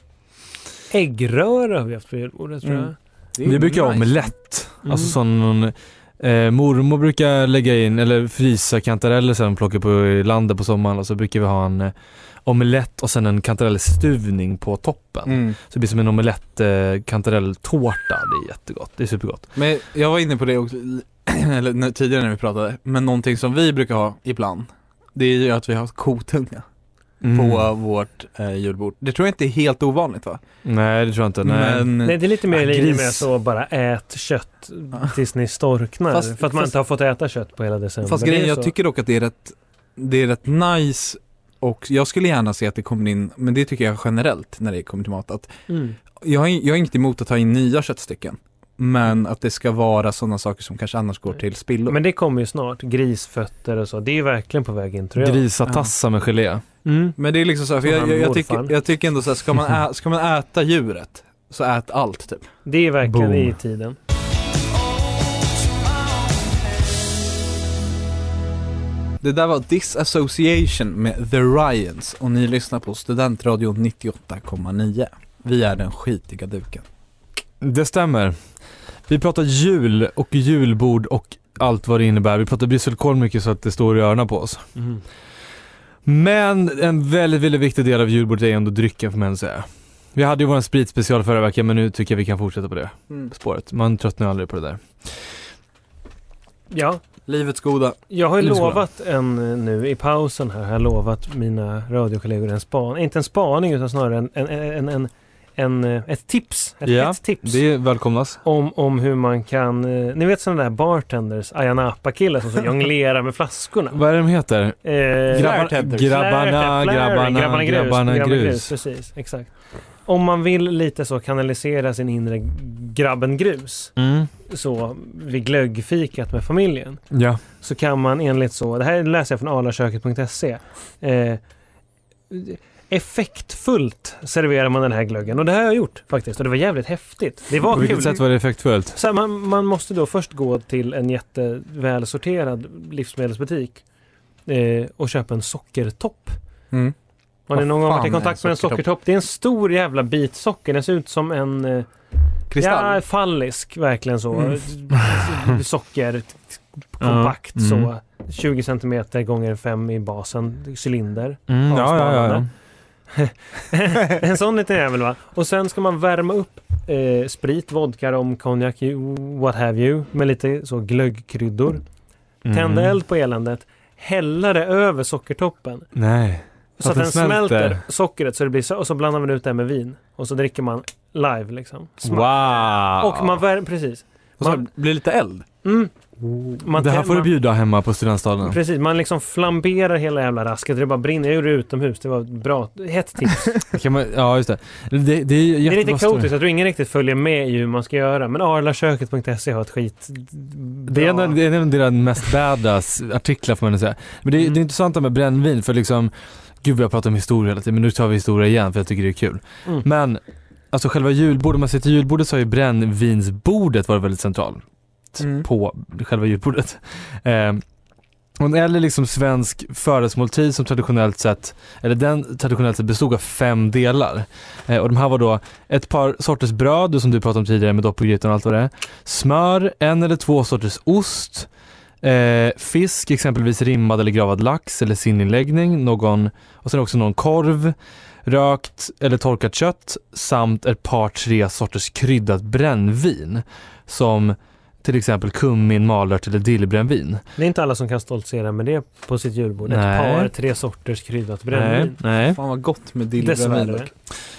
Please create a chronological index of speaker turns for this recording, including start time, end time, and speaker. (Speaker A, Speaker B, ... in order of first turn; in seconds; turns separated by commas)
Speaker A: 0.9-3.0, Speaker B: 2.6-4.3, Speaker C: 3.5-11.9, Speaker A: 4.8-5.2, Speaker C: 12.4-19.5, Speaker B: 15.3-15.6, Speaker B: 19.6-26.7, Speaker C: 27.2-27.6, Speaker B: 27.3-30.4, Speaker C: 30.6-31.9, Speaker B: 31.4-32.2, Speaker A: 32.0-38.7, Speaker C: 32.5-33.2, Speaker B: 36.1-36.7, Speaker B: 38.0-45.5, Speaker A: 45.7-46.0, Speaker B: 46.2-52.0, Speaker A: 51.9-55.4, Speaker C: 55.2-56.6, Speaker B: 55.6-55.9, Speaker A: 56.9-57.2, Speaker B: 57.2-62.5, Speaker A: 57.8-58.7, Speaker A: 62.7-64.0, Speaker C: 63.0-63.5, Speaker B: 69.2-76.9, Speaker C: 77.6-78.4, Speaker C: 79.1-84.7, Speaker C: 86.1-95.2, Speaker A: 96.7-97.0, Speaker B: 97.3-98.0, Speaker A: 98.1-107.6, Speaker C: 98.4-98.8, Speaker C: 106.8-108.4, Speaker A: 108.4-114.0, Speaker C: 113.9-118.7, Speaker A: 114.8-123.9, Speaker B: 115.3-116.2, Speaker C: 124.0-124.3, Speaker A: 124.5-127.0, Speaker C: 127.1-127.4, Speaker A: 127.6-131.4, Speaker A: 132.3-138.3, Speaker C: 137.7-139.0, Speaker A: 138.9-143.8, Speaker A: 144.5-146.4, Speaker A: 147.5-151.9, Speaker B: 147.5-148.8, Speaker B: 152.5-153.0, Speaker A: 152.6-162.5, Speaker C: 157.0-157.9, Speaker C: 161.5-162.5, Speaker A: 163.1-171.8, Speaker C: 172.4-172.9, Speaker A: 172.5-175.9, Speaker C: 175.9-177.8, Speaker A: 176.8-184.7, Speaker C: 182.1-183.4, Speaker B: 184.4-185.5, Speaker A: 185.6-185.9, Speaker A: 186.5-187.3, Speaker C: 186.7-188.6, Speaker A: 188.4-193.6, Speaker C: 193.7-196.3, Speaker A: 195.7-201.4, Speaker C: 200.9-210.2, Speaker C: 210.7-214.6, Speaker C: 215.1-217.6, Speaker B: 215.2-215.5, Speaker C: 218.4-231.5, Speaker C: 232.0-247.2, Speaker A: 247.4-252.0, Speaker C: 249.7-250.3, Speaker C: 251.5-252.4, Speaker B: 252.2-253.9, Speaker A: 253.2-253.9